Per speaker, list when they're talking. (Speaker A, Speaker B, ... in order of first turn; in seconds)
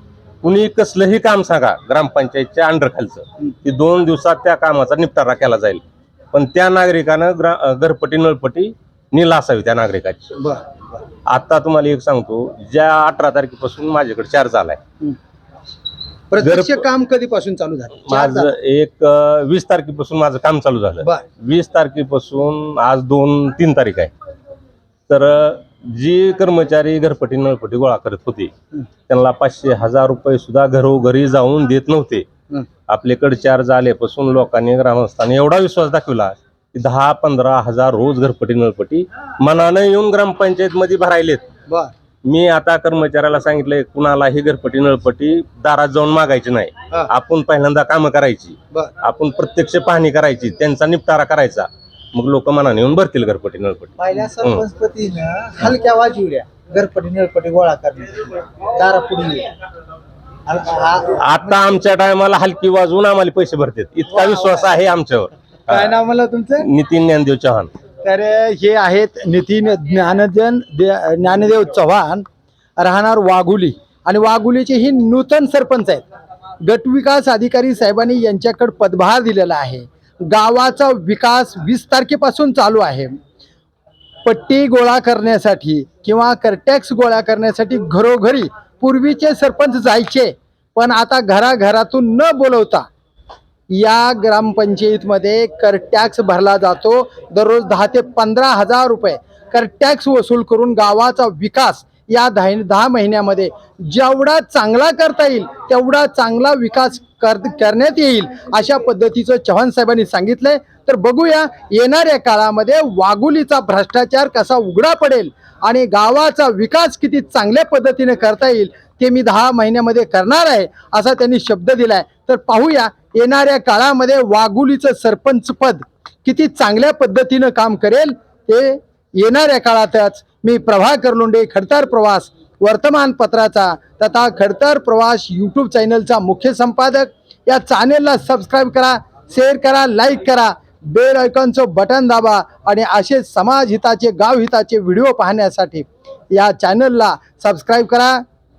Speaker A: 0.4-5.8, 6.3-10.3, 11.3-14.8, 16.4-16.8, 18.1-24.1, 25.1-28.5, 29.1-32.2, 32.9-41.4, 42.3-54.7, 61.1-66.0, 66.6-67.7
Speaker B: 10.4-10.8, 16.3-18.5, 65.7-66.7, 68.0-72.2, 72.8-76.1, 76.6-83.2, 84.2-92.9, 93.7-148.2
Speaker C: 54.0-59.5, 60.5-61.7, 64.2-64.8